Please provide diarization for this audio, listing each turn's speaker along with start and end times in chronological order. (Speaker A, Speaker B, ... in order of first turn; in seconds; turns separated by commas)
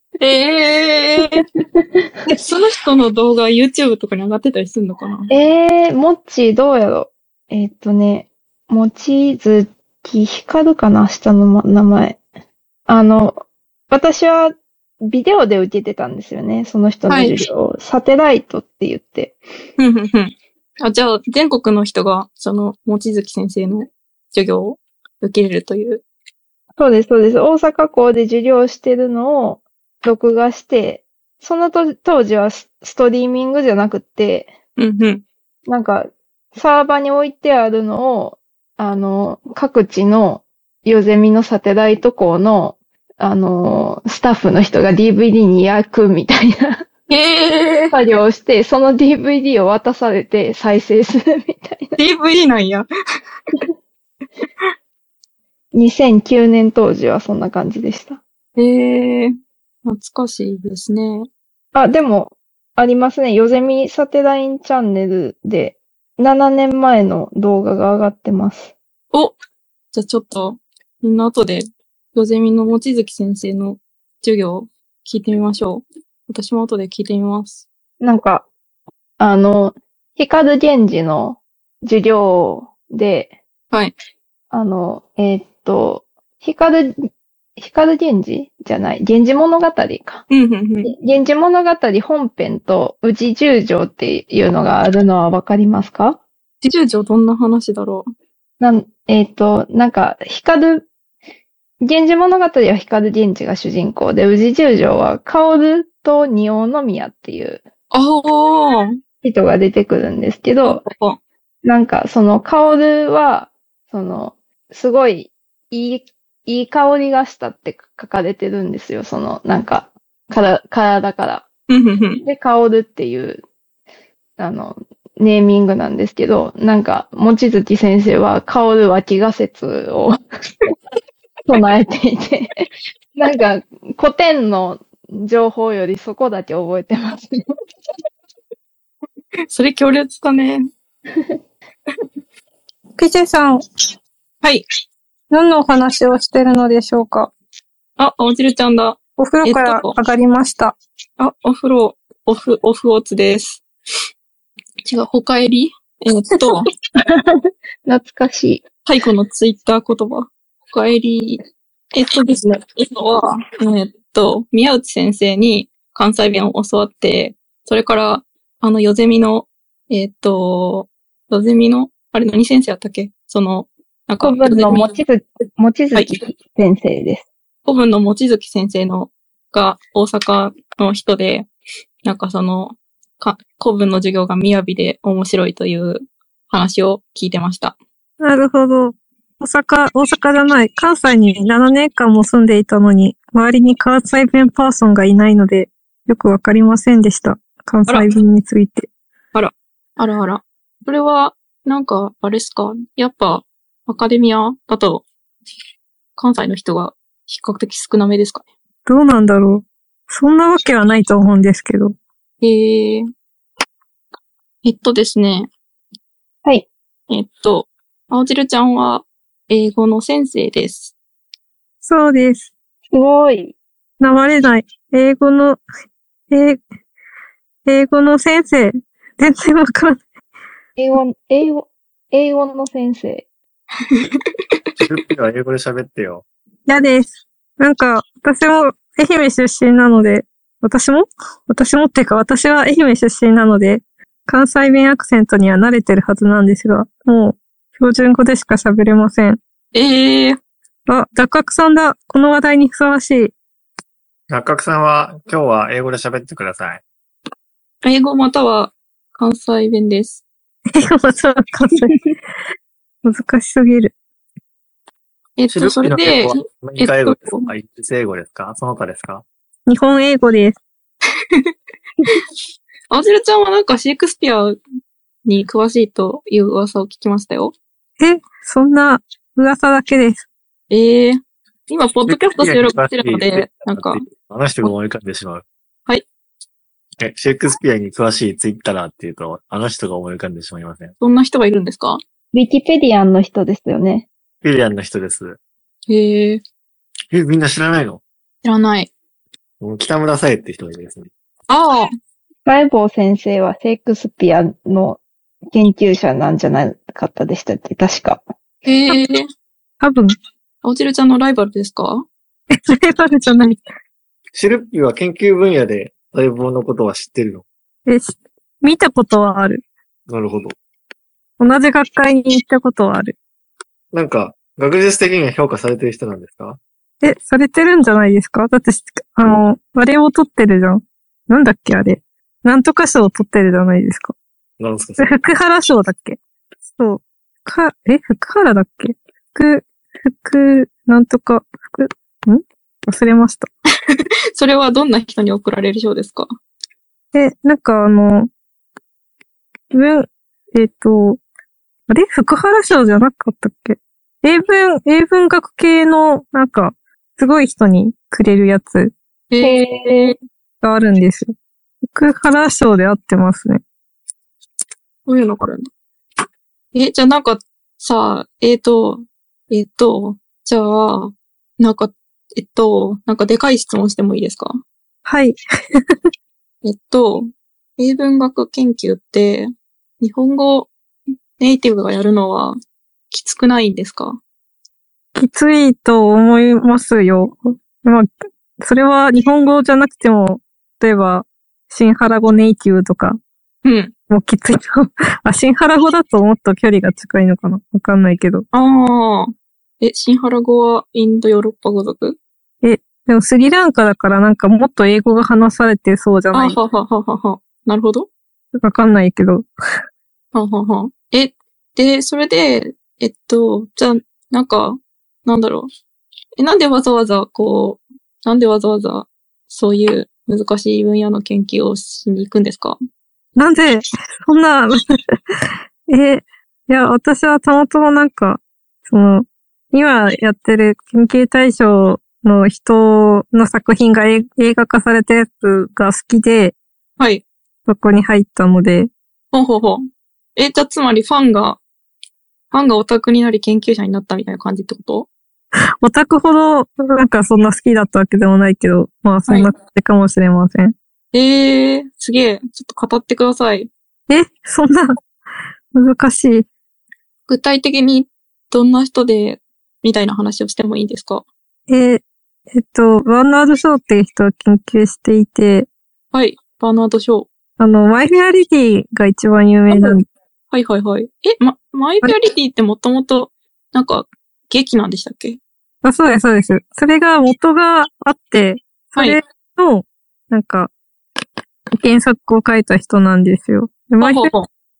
Speaker A: 0.2-1.4, Speaker A: 2.3-5.3, Speaker B: 5.3-12.2, Speaker B: 12.9-19.4, Speaker A: 17.1-17.3, Speaker A: 19.8-26.0, Speaker B: 26.8-34.5, Speaker A: 34.8-35.2, Speaker B: 35.7-46.8, Speaker A: 47.1-47.9, Speaker B: 47.9-52.0, Speaker A: 52.0-52.9, Speaker B: 55.7-58.2, Speaker A: 58.5-59.3, Speaker A: 59.8-61.3, Speaker B: 61.7-68.7, Speaker A: 69.9-71.6, Speaker A: 72.1-77.6, Speaker B: 78.0-78.5, Speaker B: 79.2-83.3, Speaker B: 84.5-87.0, Speaker B: 87.6-90.2, Speaker A: 90.3-90.9, Speaker B: 90.8-96.2, Speaker A: 96.6-98.1, Speaker B: 98.6-100.9, Speaker B: 101.8-107.6, Speaker A: 107.9-108.9, Speaker B: 109.2-110.8, Speaker A: 110.8-111.2, Speaker B: 111.6-121.5, Speaker A: 121.7-122.2, Speaker B: 122.2-123.4, Speaker B: 124.4-130.2, Speaker B: 131.4-132.6, Speaker B: 133.2-137.4, Speaker A: 139.5-140.6, Speaker C: 143.0-143.6, Speaker C: 145.3-147.3, Speaker A: 148.0-150.0, Speaker C: 149.2-150.8, Speaker A: 151.2-153.6, Speaker A: 154.8-156.7, Speaker B: 157.1-157.3, Speaker B: 157.8-158.6, Speaker A: 158.8-161.4, Speaker A: 161.9-174.8, Speaker B: 174.2-177.2, Speaker A: 177.7-181.5, Speaker A: 182.0-187.8, Speaker C: 188.2-198.9, Speaker A: 199.3-205.1, Speaker A: 206.2-208.5, Speaker C: 208.8-211.9, Speaker A: 212.4-213.1, Speaker A: 214.6-215.5, Speaker A: 217.1-220.9, Speaker C: 221.8-222.5, Speaker B: 222.9-223.6, Speaker C: 224.0-225.6, Speaker C: 226.3-226.6, Speaker C: 227.7-230.0, Speaker B: 230.8-233.3, Speaker D: 234.8-236.2, Speaker C: 236.7-249.4, Speaker A: 249.7-250.4, Speaker C: 250.9-253.3, Speaker D: 254.3-256.8, Speaker A: 257.8-260.2, Speaker C: 260.8-261.9, Speaker C: 263.0-263.9, Speaker A: 265.4-267.5, Speaker D: 265.5-269.2, Speaker C: 269.7-270.6, Speaker A: 272.9-274.6, Speaker A: 275.2-277.6, Speaker C: 278.0-280.2, Speaker A: 280.7-284.0, Speaker D: 282.1-285.4, Speaker D: 287.0-290.9, Speaker A: 291.0-292.0, Speaker B: 292.3-294.1, Speaker D: 294.4-295.4, Speaker A: 295.9-296.4, Speaker D: 297.1-298.0, Speaker A: 298.4-298.9, Speaker D: 299.6-301.1, Speaker A: 301.5-301.9, Speaker B: 302.4-305.0, Speaker B: 305.5-308.2, Speaker A: 308.6-309.2, Speaker C: 309.8-310.1, Speaker A: 310.6-312.0, Speaker C: 312.5-313.6, Speaker D: 314.3-317.4, Speaker C: 317.9-319.6, Speaker D: 320.1-320.5, Speaker C: 321.4-323.1, Speaker D: 323.9-326.6, Speaker C: 327.0-334.1, Speaker D: 334.6-335.2, Speaker C: 335.0-336.2, Speaker C: 336.7-343.5, Speaker A: 343.9-346.3, Speaker C: 347.1-348.3, Speaker C: 349.7-351.2, Speaker C: 351.9-358.9, Speaker A: 359.3-360.1, Speaker B: 359.4-360.1, Speaker C: 360.6-361.3, Speaker C: 361.9-363.6, Speaker A: 365.1-365.7, Speaker A: 366.7-374.6, Speaker C: 375.1-375.8, Speaker A: 376.6-379.5, Speaker A: 380.0-380.7, Speaker A: 381.4-382.6, Speaker A: 383.1-384.2, Speaker C: 385.1-388.1, Speaker C: 388.6-393.2, Speaker A: 393.6-393.9, Speaker C: 394.1-398.4, Speaker A: 398.5-402.2, Speaker C: 402.6-406.6, Speaker A: 406.3-408.1, Speaker C: 408.6-409.5, Speaker A: 410.3-415.7, Speaker A: 416.4-422.8, Speaker C: 423.4-424.8, Speaker C: 425.9-436.6, Speaker A: 437.0-437.2, Speaker C: 437.6-438.9, Speaker A: 439.3-439.8, Speaker A: 440.4-441.6, Speaker A: 442.5-445.1, Speaker C: 445.8-450.7, Speaker A: 451.1-453.7, Speaker C: 454.1-455.0, Speaker C: 455.7-456.5, Speaker A: 457.3-461.3, Speaker C: 461.7-465.7, Speaker A: 466.1-467.3, Speaker C: 467.6-470.1, Speaker A: 469.7-470.0, Speaker A: 470.5-475.4, Speaker C: 475.8-480.7, Speaker C: 481.8-484.3, Speaker A: 484.0-484.5